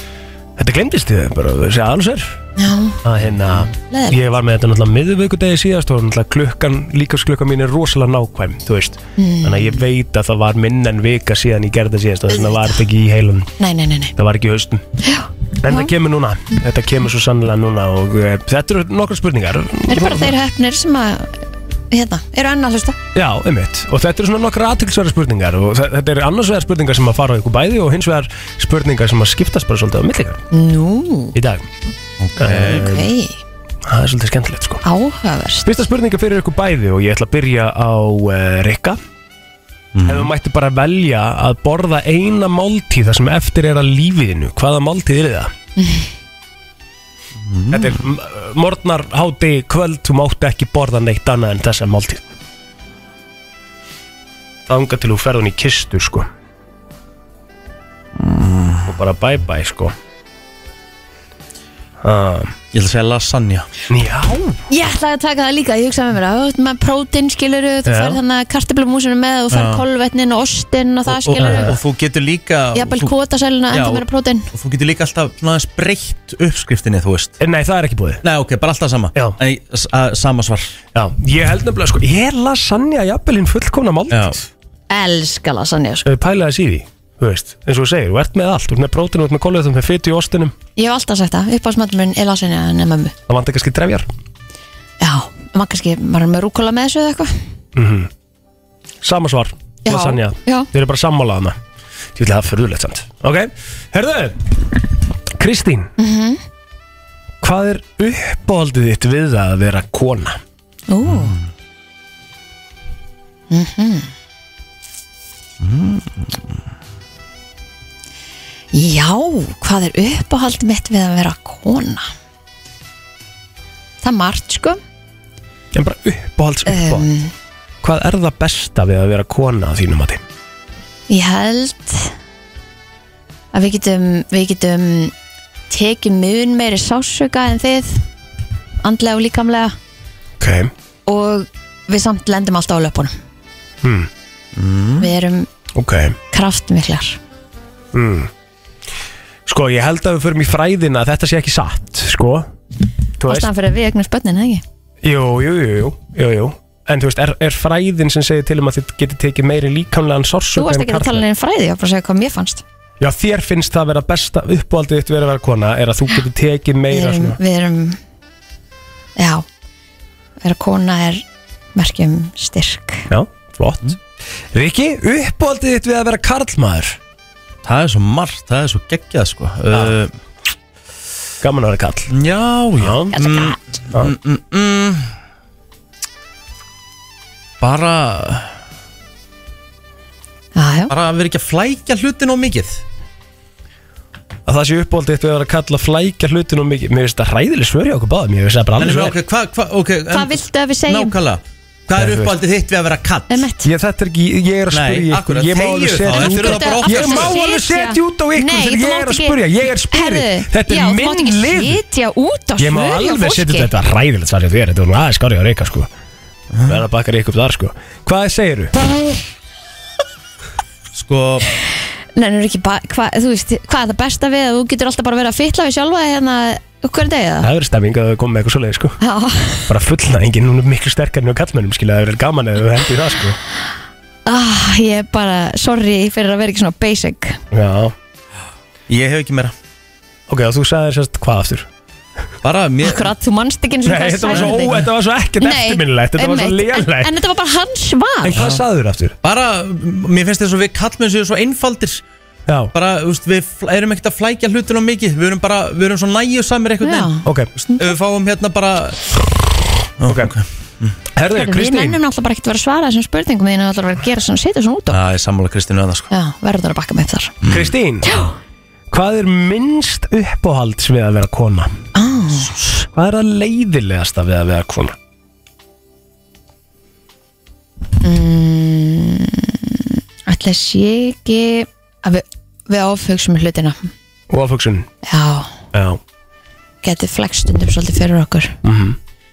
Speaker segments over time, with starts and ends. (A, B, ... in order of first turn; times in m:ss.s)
0:00.6-0:02.4 A
0:02.6-0:03.0 B
0:03.0-0:13.5 A
0:03.9-0:04.2 B
0:09.2-0:09.8 B
0:12.3-0:12.8 B
0:13.6-0:14.1 B
0:14.2-0:14.8 A
0:15.0-0:15.9 B
0:15.6-0:20.3 A
0:19.9-0:23.0 B
0:23.1-0:30.4 A
0:30.5-0:31.3 B
0:31.3-0:31.6 A
0:32.2-0:32.9 C
0:32.4-0:33.0 A
0:32.7-0:33.4 B
0:33.8-0:34.8 A
0:34.8-0:35.7 B
0:35.6-0:39.0 A
0:39.9-0:40.3 C
0:40.0-0:45.5 A
0:45.8-0:46.0 B
0:47.4-0:48.0 C
0:47.7-0:52.2 A
0:54.7-0:56.3 A
0:58.2-0:58.9 C
0:58.8-0:59.9 A
1:02.0-1:02.5 A
1:02.7-1:03.7 C
1:03.9-1:04.6 A
1:04.7-1:11.7 B
1:07.8-1:08.2 A
1:09.5-1:09.8 C
1:11.1-1:13.1 C
1:11.4-1:11.8 A
1:12.7-1:14.5 B
1:13.7-1:17.4 C
1:17.4-1:18.2 A
1:18.2-1:20.8 C
1:20.9-1:24.5 A
1:24.1-1:24.4 C
1:24.9-1:26.0 B
1:26.0-1:30.5 A
1:30.8-1:33.1 B
1:33.3-1:34.1 A
1:35.0-1:37.3 B
1:37.7-1:38.1 A
1:39.0-1:41.6 A
1:39.8-1:40.7 B
1:42.2-1:44.5 A
1:45.4-1:45.9 A
1:46.0-1:46.4 B
1:47.4-1:50.4 A
1:50.9-1:51.4 B
1:51.0-1:51.4 C
1:53.5-1:54.1 B
1:55.6-1:56.6 C
1:58.7-2:02.1 B
2:04.0-2:04.8 B
2:05.7-2:07.1 A
2:06.6-2:07.3 B
2:07.8-2:10.2 A
2:11.1-2:12.1 B
2:13.5-2:15.1 B
2:15.7-2:18.0 B
2:18.8-2:19.8 B
2:20.4-2:20.7 A
2:21.1-2:23.1 B
2:23.8-2:24.1 A
2:24.5-2:25.1 C
2:25.0-2:25.5 B
2:25.7-2:26.2 A
2:26.3-2:27.2 B
2:27.9-2:28.3 A
2:29.4-2:32.5 A
2:33.2-2:33.5 A
2:33.3-2:34.6 B
2:35.0-2:41.2 A
2:40.5-2:42.6 B
2:43.0-2:47.4 A
2:46.9-2:48.0 B
2:49.2-2:49.4 B
2:50.4-2:51.2 B
2:51.7-2:53.1 B
2:53.1-2:54.0 A
2:54.5-2:57.0 A
2:57.6-3:00.1 C
3:01.4-3:02.1 A
3:02.1-3:05.1 C
3:02.8-3:03.1 A
3:03.1-3:03.6 B
3:07.6-3:08.6 C
3:10.5-3:10.9 B
3:10.9-3:12.8 C
3:14.4-3:19.2 A
3:18.8-3:23.4 C
3:20.1-3:21.1 B
3:22.0-3:22.4 A
3:23.3-3:23.7 B
3:23.6-3:31.8 A
3:24.7-3:27.4 C
3:26.1-3:33.7 B
3:32.6-3:35.9 A
3:36.5-3:36.8 C
3:36.7-3:38.7 A
3:40.9-3:41.5 C
3:42.2-3:47.5 B
3:47.4-3:49.0 A
3:49.0-3:49.7 B
3:49.7-3:53.4 A
3:54.2-3:57.4 B
3:57.5-3:57.9 A
3:58.9-3:59.5 C
4:00.3-4:01.7 A
4:02.4-4:03.1 C
4:02.8-4:04.9 B
4:03.8-4:07.1 A
4:04.3-4:04.6 C
4:05.4-4:08.4 B
4:08.2-4:09.2 A
4:08.3-4:08.6 C
4:09.2-4:12.0 C
4:12.7-4:19.0 C
4:16.8-4:17.9 B
4:17.2-4:17.5 A
4:20.0-4:21.0 C
4:20.1-4:20.3 A
4:21.1-4:22.0 A
4:21.3-4:25.0 B
4:24.9-4:26.1 C
4:26.1-4:27.4 B
4:27.4-4:27.7 C
4:27.5-4:28.3 A
4:28.9-4:31.7 A
4:31.9-4:32.6 B
4:32.9-4:34.9 A
4:38.0-4:43.9 B
4:44.3-4:44.9 A
4:45.0-4:45.6 B
4:45.7-4:46.0 A
4:46.8-4:48.6 B
4:48.6-4:49.0 A